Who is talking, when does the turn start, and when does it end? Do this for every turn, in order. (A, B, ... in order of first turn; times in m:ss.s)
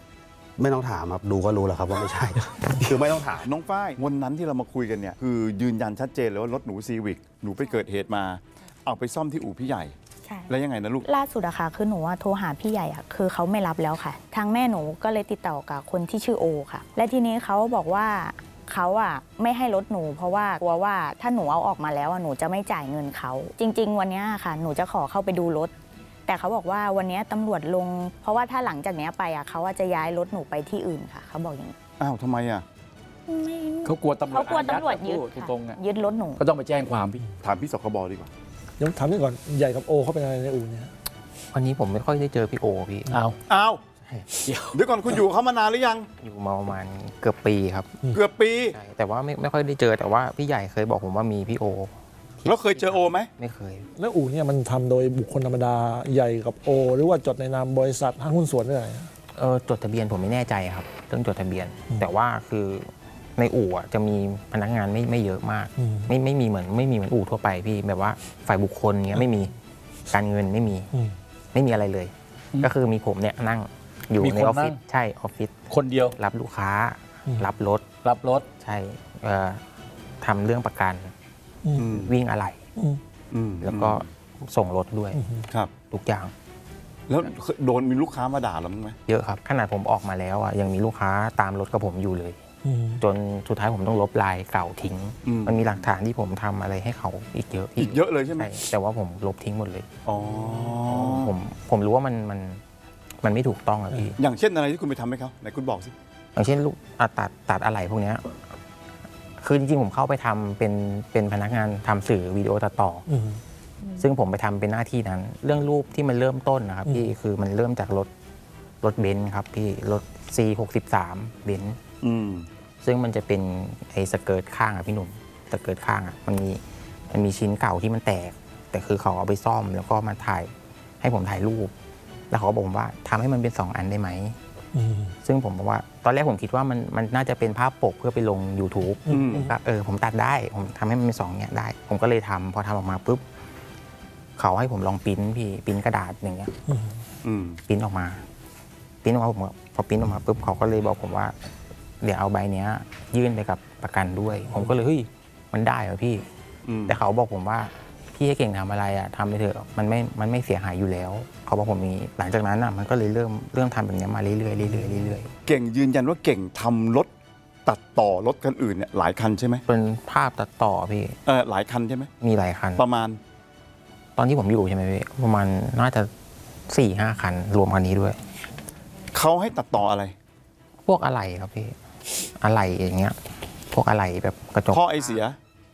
0:00.6-0:03.5 A
0:03.5-0:09.9 B
0:10.3-0:25.7 C
0:10.5-0:11.1 B
0:26.3-0:31.8 C
0:32.0-0:32.6 B
0:33.3-0:36.4 C
0:33.8-0:35.8 D
0:36.4-0:37.3 D
0:37.4-0:38.3 B
0:38.8-0:40.9 E
0:41.5-0:43.2 F
0:43.5-0:43.8 B
0:44.4-0:45.2 D
0:44.7-0:46.1 B
0:46.2-0:48.0 F
0:48.1-0:48.8 B
0:48.7-0:53.9 F
0:52.4-0:53.3 B
0:54.0-0:59.1 E
0:59.4-1:09.5 F
1:10.1-1:10.9 F
1:11.5-1:15.6 F
1:14.2-1:14.8 D
1:15.7-1:16.2 D
1:16.2-1:17.9 F
1:18.0-1:18.5 D
1:18.6-1:19.6 F
1:20.2-1:21.1 F
1:21.8-1:22.1 B
1:21.8-1:22.6 F
1:23.3-1:24.0 B
1:23.6-1:25.2 F
1:25.1-1:25.4 E
1:25.9-1:26.3 F
1:27.1-1:29.0 B
1:29.1-1:32.4 F
1:32.7-1:33.0 E
1:33.0-1:39.9 F
1:35.3-1:35.6 B
1:37.8-1:38.5 B
1:40.1-1:41.3 B
1:40.8-1:42.6 F
1:43.2-1:44.2 F
1:44.2-1:45.9 B
1:46.4-1:48.3 F
1:49.4-1:53.0 F
1:54.0-1:58.1 F
1:58.8-2:01.8 F
2:02.0-2:02.5 B
2:02.8-2:11.7 F
2:12.3-2:14.4 F
2:14.8-2:15.0 E
2:15.2-2:23.2 F
2:19.1-2:19.5 B
2:24.4-2:26.5 F
2:27.2-2:27.6 B
2:27.7-2:28.2 F
2:29.0-2:31.3 F
2:32.0-2:36.2 F
2:36.7-2:37.0 B
2:36.9-2:45.3 F
2:45.5-2:47.1 B
2:47.7-2:49.6 B
2:49.7-2:51.2 F
2:51.3-2:52.1 B
2:52.2-2:52.8 F
2:52.8-2:53.2 B
2:54.2-2:56.1 F
2:56.7-2:58.2 F
2:59.1-3:00.1 B
3:00.9-3:01.8 F
3:02.4-3:05.2 F
3:04.7-3:05.4 B